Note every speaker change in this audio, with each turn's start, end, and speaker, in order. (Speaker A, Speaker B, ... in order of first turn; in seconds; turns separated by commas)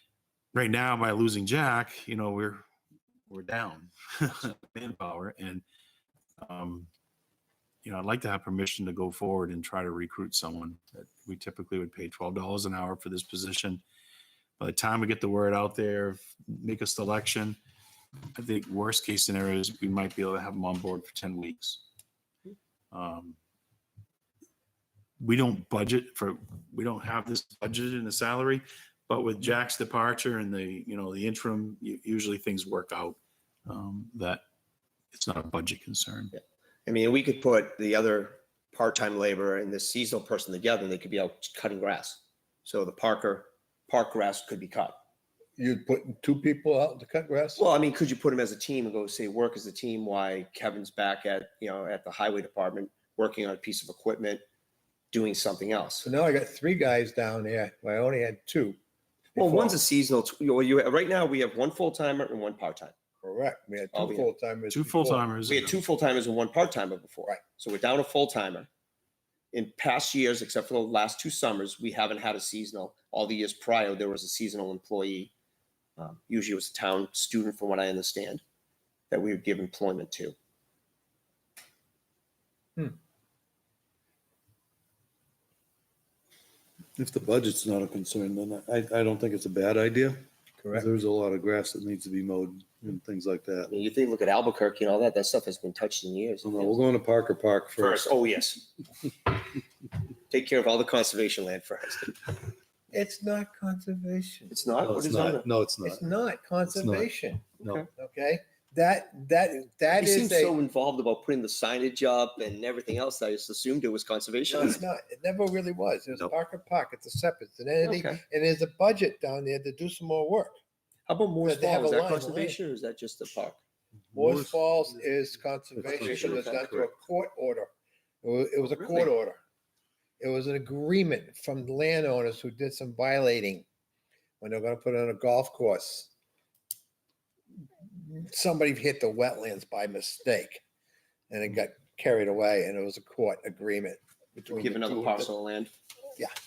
Speaker A: 0.5-2.6, Speaker A: 3.3-5.6, Speaker A: 6.4-6.9, Speaker A: 7.8-13.8, Speaker A: 14.6-17.6, Speaker A: 18.3-21.8, Speaker A: 22.9-23.4, Speaker A: 25.2-34.4, Speaker A: 35.1-36.3, Speaker B: 36.3-45.0, Speaker C: 45.6-47.6, Speaker B: 47.6-54.4, Speaker B: 55.1-56.0, Speaker C: 56.0-58.8, Speaker C: 59.3-59.8, Speaker B: 59.4-62.9, Speaker C: 63.2-65.2, Speaker B: 63.9-64.3, Speaker A: 64.7-65.8, Speaker B: 65.5-68.7, Speaker B: 69.5-75.3, Speaker B: 76.0-78.4, Speaker B: 79.1-80.3, Speaker D: 87.0-93.7, Speaker C: 90.6-90.9, Speaker B: 93.7-96.8, Speaker D: 96.4-98.1, Speaker B: 97.8-98.7, Speaker B: 100.3-102.2, Speaker C: 102.9-104.5, Speaker B: 104.5-105.5, Speaker D: 104.8-106.0, Speaker C: 105.8-110.5, Speaker D: 106.7-107.8, Speaker B: 107.6-107.9, Speaker B: 109.9-114.8, Speaker C: 114.5-120.6, Speaker B: 117.8-118.2, Speaker B: 121.1-123.6, Speaker C: 121.4-122.6, Speaker D: 124.1-124.7, Speaker C: 124.1-127.7, Speaker D: 125.8-126.9, Speaker B: 125.8-126.7, Speaker C: 128.2-129.4, Speaker B: 128.7-129.1, Speaker C: 130.2-133.6, Speaker C: 134.4-136.1, Speaker C: 137.8-140.6, Speaker C: 141.3-145.3, Speaker B: 144.5-145.7